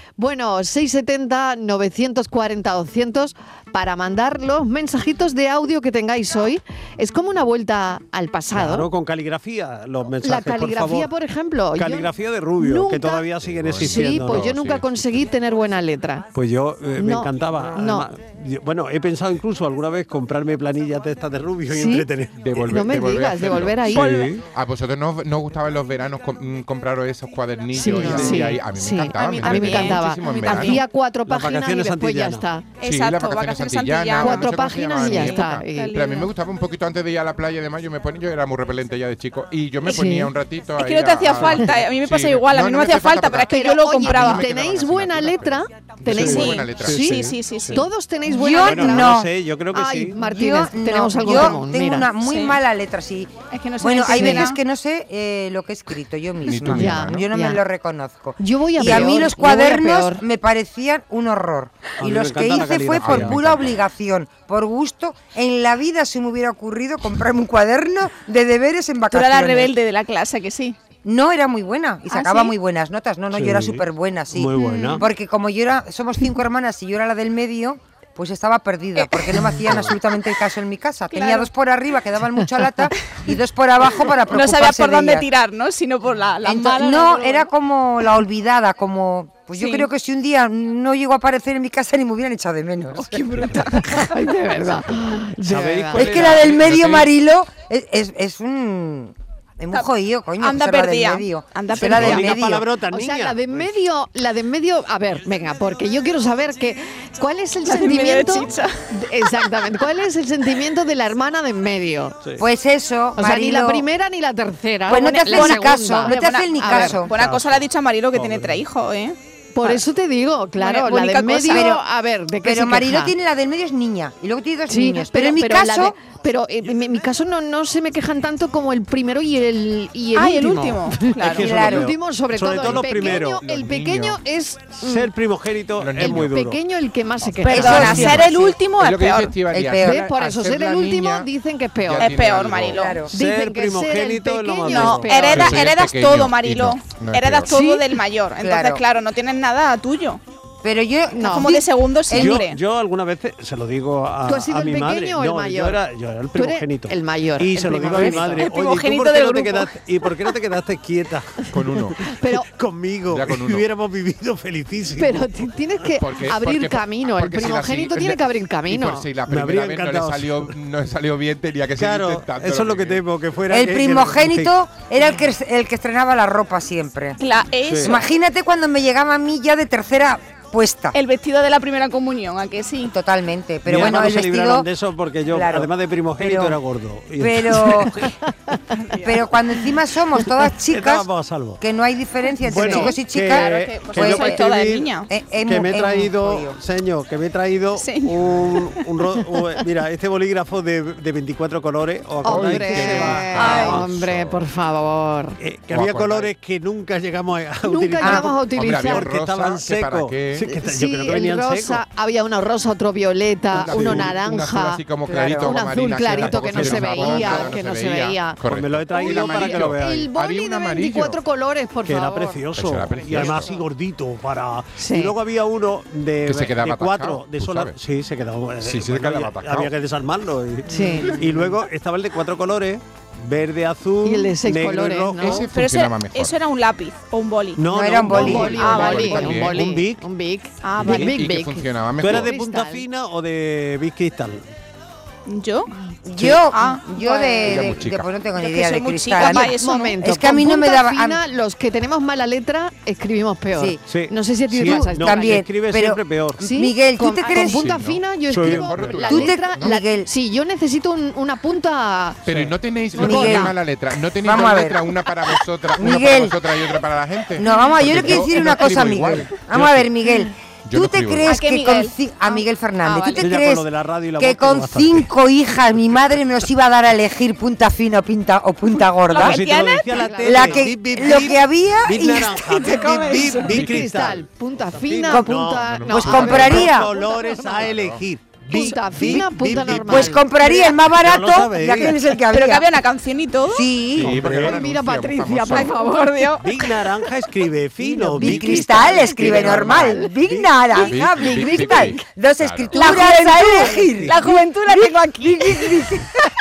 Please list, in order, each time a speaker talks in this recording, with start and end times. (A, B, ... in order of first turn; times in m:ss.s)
0:00.2-0:08.9 A
0:08.5-0:11.1 B
0:10.2-0:13.2 A
0:11.7-0:14.5 B
0:13.4-0:15.3 C
0:13.8-0:16.3 A
0:16.3-0:22.4 B
0:17.0-0:18.1 A
0:21.7-0:22.1 A
0:22.4-0:30.8 C
0:22.6-0:24.3 A
0:23.9-0:24.4 B
0:27.7-0:32.7 A
0:28.0-0:28.3 B
0:29.1-0:30.8 D
0:31.2-0:32.4 B
0:32.8-0:36.3 D
0:32.8-0:47.0 C
0:34.1-0:36.0 A
0:39.8-0:40.3 A
0:40.8-0:44.5 D
0:43.5-0:47.2 A
0:46.1-0:47.8 B
0:46.2-0:47.8 D
0:47.7-0:49.2 A
0:48.3-0:49.3 E
0:48.6-0:50.2 B
0:49.7-0:52.1 A
0:50.2-1:09.7 E
0:52.2-0:52.6 D
0:53.5-0:54.6 D
0:54.1-0:54.5 A
0:56.4-0:57.2 C
0:56.6-0:57.6 A
0:58.4-1:00.2 A
1:02.0-1:03.5 B
1:03.0-1:03.8 C
1:09.1-1:10.8 D
1:11.0-1:25.2 E
1:12.1-1:12.5 D
1:13.3-1:15.0 B
1:14.6-1:15.0 D
1:18.9-1:19.3 D
1:21.1-1:21.5 D
1:24.0-1:27.5 D
1:26.4-1:33.7 E
1:29.5-1:29.9 D
1:33.0-1:34.1 D
1:33.8-1:36.3 A
1:35.4-1:36.8 B
1:35.9-1:42.7 E
1:36.1-1:37.1 C
1:39.7-1:42.3 D
1:41.7-1:43.7 B
1:42.8-1:52.2 A
1:47.6-1:48.8 D
1:52.4-1:53.9 E
1:53.2-1:57.1 A
1:54.9-1:57.1 E
1:55.0-1:59.8 D
1:57.1-1:58.6 B
1:59.5-2:03.1 A
2:00.6-2:01.7 D
2:01.4-2:01.8 E
2:02.4-2:06.0 E
2:04.7-2:15.1 A
2:10.1-2:11.8 D
2:11.2-2:13.4 B
2:11.4-2:11.9 E
2:12.6-2:14.2 C
2:14.8-2:16.6 B
2:15.8-2:16.3 C
2:16.0-2:18.5 A
2:17.4-2:19.3 D
2:17.5-2:18.3 E
2:17.8-2:21.3 C
2:19.5-2:20.1 E
2:19.7-2:22.1 A
2:21.8-2:22.9 C
2:22.0-2:23.0 D
2:22.7-2:23.1 E
2:23.1-2:25.4 B
2:23.1-2:25.6 A
2:24.6-2:30.2 D
2:25.3-2:27.5 C
2:27.5-2:27.8 A
2:28.4-2:28.8 E
2:30.6-2:32.4 E
2:31.1-2:31.6 A
2:31.2-2:32.6 D
2:32.1-2:41.3 B
2:34.2-2:35.8 A
2:36.3-2:38.4 A
2:37.9-2:38.4 E
2:38.2-2:39.7 D
2:41.5-2:42.0 C
2:42.0-2:42.5 A
2:42.4-2:45.3 B
2:43.1-2:43.6 C
2:45.0-2:49.1 A
2:45.9-2:53.0 C
2:49.3-2:50.4 B
2:51.8-2:54.5 B
2:53.5-2:57.2 E
2:57.2-2:58.0 D
2:57.7-2:58.0 B
2:57.8-3:01.0 E
3:00.9-3:02.9 D
3:02.8-3:04.7 E
3:03.6-3:08.0 B
3:05.3-3:06.6 E
3:07.2-3:08.0 E
3:08.9-3:09.3 D
3:09.0-3:11.1 E
3:10.7-3:11.6 B
3:11.6-3:14.4 E
3:12.4-3:23.8 B
3:12.5-3:15.1 D
3:15.1-3:16.6 E
3:17.8-3:18.4 D
3:22.2-3:25.4 A
3:22.2-3:24.4 C
3:25.4-3:31.8 B
3:25.7-3:26.3 C
3:27.6-3:29.1 A
3:28.0-3:28.3 E
3:28.4-3:30.5 C
3:30.4-3:42.5 A
3:33.5-3:41.2 C
3:33.7-3:34.1 B
3:35.0-3:35.6 E
3:36.0-3:37.5 B
3:38.5-3:40.1 B
3:41.8-3:55.4 B
3:42.6-3:43.5 C
3:43.0-3:43.6 A
3:44.8-3:45.2 A
3:46.2-3:47.8 C
3:48.6-3:49.7 C
3:50.7-3:51.3 A
3:50.7-3:51.3 C
3:54.0-3:55.5 A
3:55.2-3:56.3 C
3:55.5-3:57.7 D
3:57.6-4:00.0 B
3:57.7-3:58.7 E
3:58.0-4:02.9 A
3:58.2-3:59.6 C
3:58.4-3:59.3 D
4:00.6-4:01.2 D
4:00.8-4:02.3 C
4:02.0-4:04.4 B
4:05.3-4:05.7 D
4:06.0-4:11.2 E
4:06.2-4:07.7 D
4:07.4-4:08.1 C
4:08.3-4:10.0 D
4:09.2-4:15.4 A
4:13.5-4:13.8 E
4:13.8-4:16.4 B
4:14.6-4:17.8 E
4:16.4-4:22.4 A
4:17.4-4:19.8 C
4:18.3-4:19.1 B
4:19.0-4:20.1 E
4:22.2-4:30.0 C
4:22.9-4:23.5 A
4:23.0-4:23.5 E
4:24.2-4:24.8 E
4:25.8-4:26.4 E
4:27.4-4:33.6 E
4:30.6-4:31.3 C
4:31.2-4:32.4 D
4:32.8-4:33.3 A
4:33.2-4:35.1 B
4:34.2-4:39.4 E
4:39.1-4:40.2 D
4:39.2-4:52.0 B
4:39.9-4:40.7 A
4:40.2-4:42.2 E
4:42.0-4:43.5 D
4:43.2-4:47.7 A
4:43.5-4:44.2 C
4:45.1-4:45.3 E
4:45.7-4:46.7 C
4:45.9-4:46.9 E
4:47.5-4:48.0 C
4:48.4-4:50.3 A
4:49.0-4:52.7 E
4:52.3-4:53.7 D
4:53.4-4:54.2 E
4:54.0-4:55.7 C
4:54.0-4:54.6 B
4:54.2-4:56.3 A
4:55.5-4:56.7 D
4:56.4-5:00.5 B
4:57.8-5:06.0 E
4:57.9-5:00.1 A
5:00.8-5:03.0 C
5:01.1-5:02.0 A
5:02.7-5:06.0 D
5:03.4-5:04.2 B